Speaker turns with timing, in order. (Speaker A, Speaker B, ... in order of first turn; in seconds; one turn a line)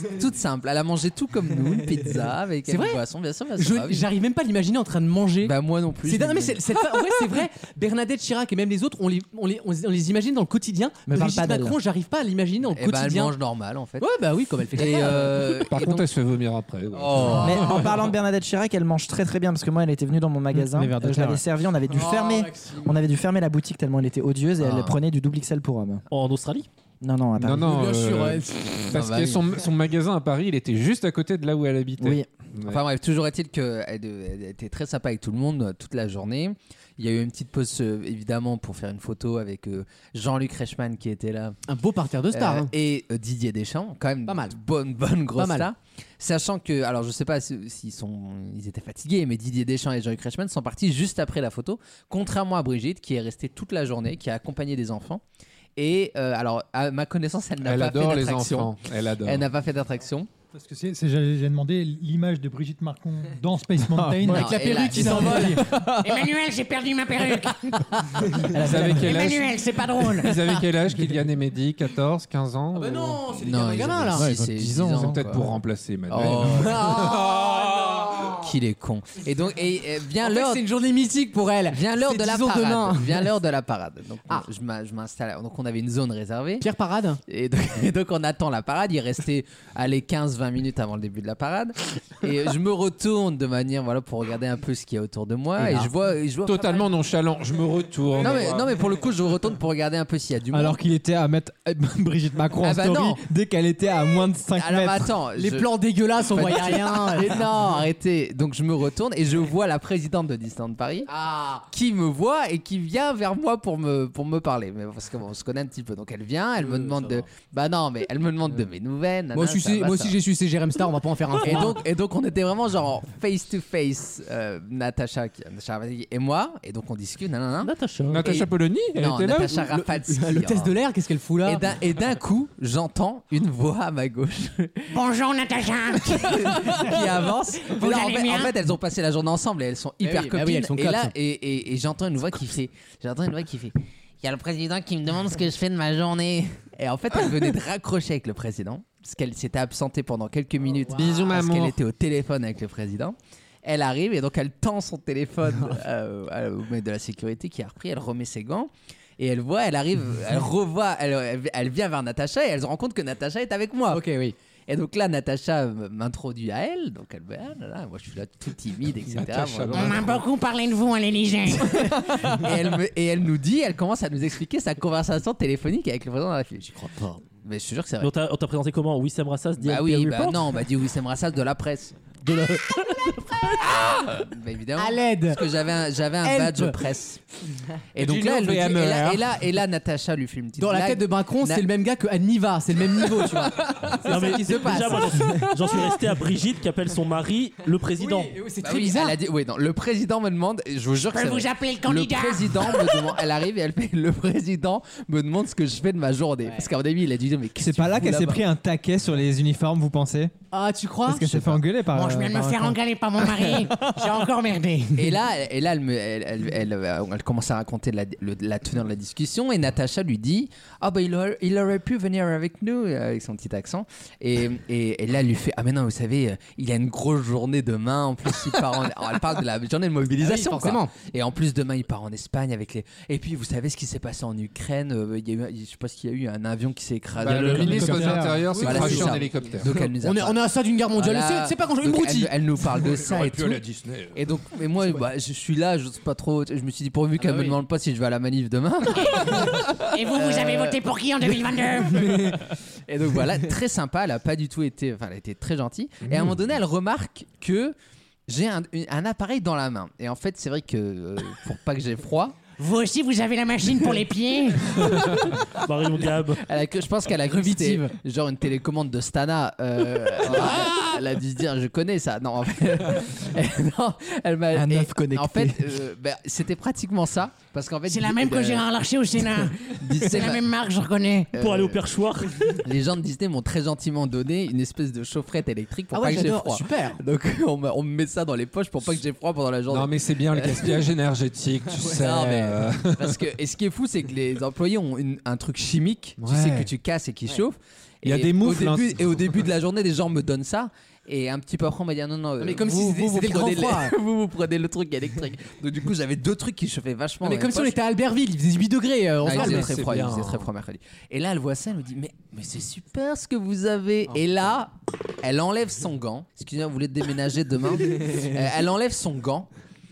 Speaker A: 0.1-4.1
Speaker B: 2.7-3.0
Speaker B: 3.6-5.5
Speaker A: 5.4-6.6
Speaker B: 6.0-13.3
Speaker C: 11.1-11.8
Speaker A: 12.7-14.1
Speaker B: 14.0-15.6
Speaker A: 14.8-16.0
Speaker D: 15.6-17.9
Speaker A: 16.9-17.9
Speaker C: 17.4-26.0
Speaker E: 20.5-21.4
Speaker B: 21.9-23.0
Speaker A: 24.6-25.0
Speaker F: 26.1-26.7
Speaker C: 27.0-27.7
Speaker D: 27.4-32.8
Speaker B: 27.6-29.0
Speaker A: 28.9-29.5
Speaker C: 32.0-32.3
Speaker A: 32.7-41.6
Speaker B: 41.7-42.7
Speaker A: 42.3-55.2
Speaker B: 44.3-44.6
Speaker B: 45.4-45.7
Speaker A: 55.8-60.3
Speaker D: 57.6-59.5
Speaker G: 60.5-65.5
Speaker E: 63.8-66.2
Speaker B: 64.3-65.6
Speaker A: 64.3-65.6
Speaker H: 66.0-67.9
Speaker B: 67.7-68.5
Speaker C: 68.5-69.1
Speaker D: 68.5-73.2
Speaker H: 69.0-70.5
Speaker B: 72.7-74.3
Speaker A: 73.4-77.1
Speaker E: 74.2-75.3
Speaker D: 74.9-78.2
Speaker B: 76.4-78.5
Speaker A: 78.3-80.6
Speaker B: 80.2-83.3
Speaker A: 81.7-86.7
Speaker B: 86.6-87.2
Speaker A: 87.3-96.9
Speaker D: 96.4-98.8
Speaker A: 98.2-100.8
Speaker E: 100.5-105.1
Speaker A: 102.6-103.2
Speaker A: 104.6-105.7
Speaker B: 105.3-107.5
Speaker A: 106.3-111.1
Speaker B: 111.1-111.6
Speaker A: 111.7-120.2
Speaker B: 116.6-117.3
Speaker B: 119.3-121.8
Speaker A: 121.4-130.8
Speaker F: 127.6-128.3
Speaker D: 128.1-129.9
Speaker B: 130.1-131.6
Speaker A: 131.4-134.9
Speaker H: 134.9-136.6
Speaker A: 136.0-164.0
Speaker H: 137.6-138.6
Speaker B: 140.0-141.1
Speaker B: 150.7-151.3
Speaker D: 150.9-151.8
Speaker B: 163.9-164.3
Speaker A: 164.7-170.1
Speaker D: 169.1-170.2
Speaker H: 169.7-171.8
Speaker A: 171.6-176.8
Speaker B: 176.8-177.2
Speaker A: 177.4-178.1
Speaker F: 178.0-180.6
Speaker A: 179.6-182.1
Speaker F: 182.2-184.1
Speaker A: 183.8-187.2
Speaker B: 184.8-185.4
Speaker B: 186.2-186.8
Speaker A: 187.9-191.7
Speaker D: 188.0-189.2
Speaker B: 190.6-195.5
Speaker F: 194.0-198.3
Speaker B: 198.0-199.2
Speaker A: 198.6-208.4
Speaker H: 200.9-203.1
Speaker E: 207.6-210.3
Speaker B: 210.5-211.5
Speaker E: 211.1-214.1
Speaker H: 211.9-215.2
Speaker A: 214.9-243.6
Speaker B: 230.2-230.9
Speaker D: 237.2-239.7
Speaker F: 237.3-237.8
Speaker E: 237.8-238.4
Speaker G: 237.9-238.2
Speaker B: 238.4-242.3
Speaker D: 242.8-244.2
Speaker A: 244.1-257.8
Speaker B: 247.2-247.6
Speaker H: 249.0-249.3
Speaker H: 249.9-252.0
Speaker D: 256.1-256.4
Speaker A: 258.3-262.4
Speaker H: 262.6-264.9
Speaker F: 265.6-266.4
Speaker A: 266.3-278.7
Speaker B: 267.2-267.9
Speaker C: 274.5-275.8
Speaker H: 277.9-281.4
Speaker A: 279.4-280.5
Speaker A: 281.3-281.8
Speaker F: 281.4-282.6
Speaker A: 282.6-290.9
Speaker B: 285.9-287.0
Speaker D: 289.7-293.2
Speaker A: 291.8-307.8
Speaker D: 296.2-296.7
Speaker D: 298.0-299.4
Speaker B: 302.4-303.9
Speaker B: 307.2-309.7
Speaker A: 309.2-319.5
Speaker D: 309.3-310.5